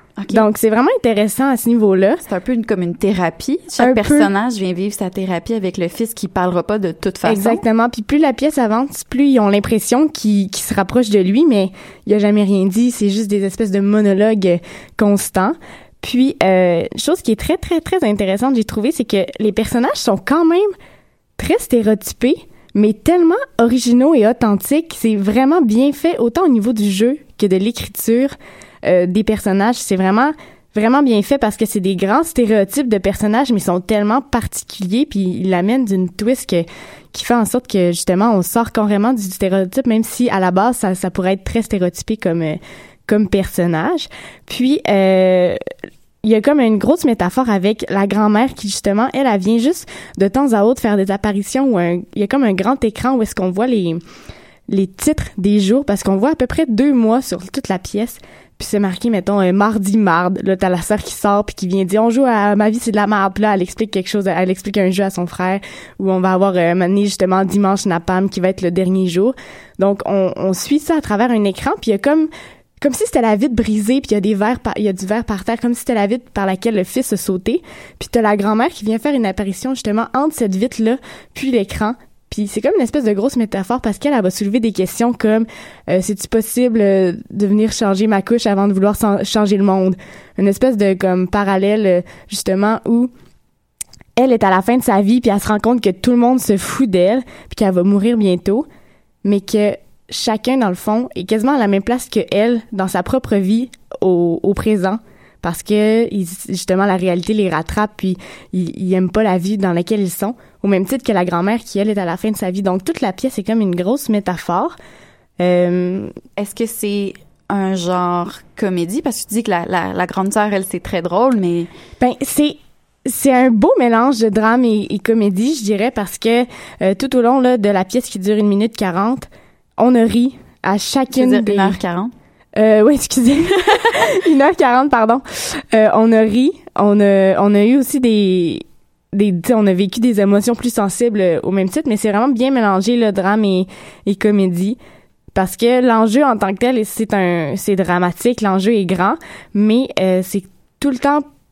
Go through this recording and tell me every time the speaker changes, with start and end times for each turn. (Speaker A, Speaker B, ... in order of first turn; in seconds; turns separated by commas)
Speaker A: 0.2-0.5, Speaker B: 0.3-2.2, Speaker A: 2.2-7.6, Speaker B: 3.8-4.3, Speaker B: 7.2-20.7, Speaker B: 21.4-45.6, Speaker B: 46.2-54.0, Speaker B: 54.7-72.3, Speaker B: 72.8-93.1, Speaker B: 94.2-98.7, Speaker B: 99.2-114.8, Speaker B: 115.4-116.1, Speaker A: 116.4-121.7, Speaker B: 122.0-131.8, Speaker A: 131.1-132.1, Speaker B: 132.6-144.8, Speaker B: 145.3-151.2